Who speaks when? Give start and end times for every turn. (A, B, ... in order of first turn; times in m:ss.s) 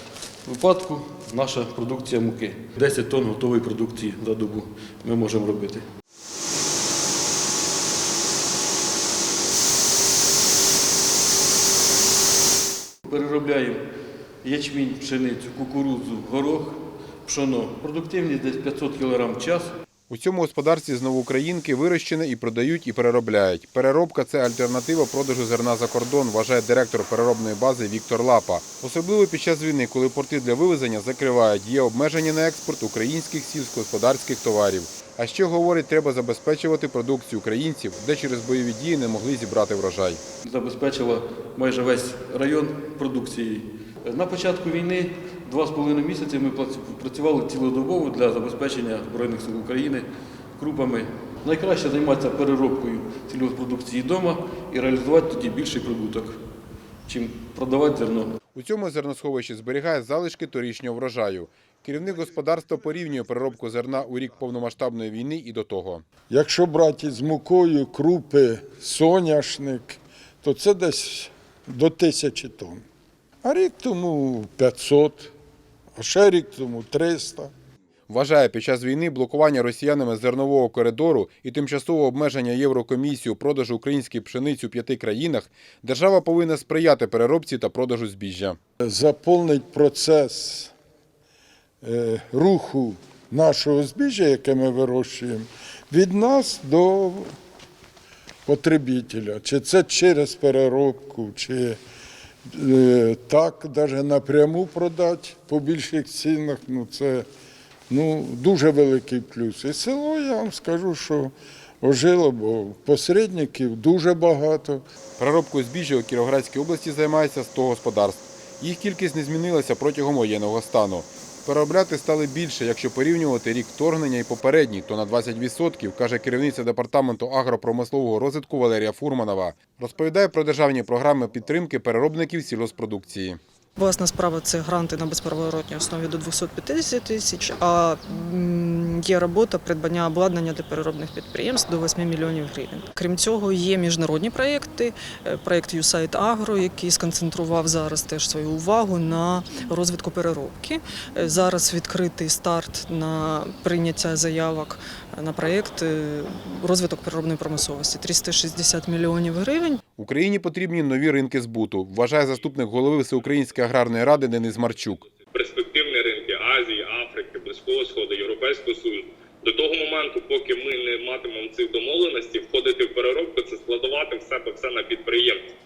0:00.4-0:05.9 A
0:13.0-0:13.8 A
0:14.4-0:19.7 A
0:20.1-0:40.2 B
0:40.4-0:56.4 A
0:57.1-0:58.4 A
0:58.6-1:06.1 B
1:06.3-1:12.8 C
1:13.4-1:15.3 C
1:16.0-1:17.5 C
1:18.1-1:28.6 B
1:28.8-1:30.7 C
1:31.8-1:37.4 C
1:38.5-1:41.8 C
1:42.5-1:47.3 C
1:47.9-1:54.8 C
1:55.2-2:13.4 B
2:13.8-2:39.8 D
2:40.0-2:45.1 B
2:45.3-2:55.5 E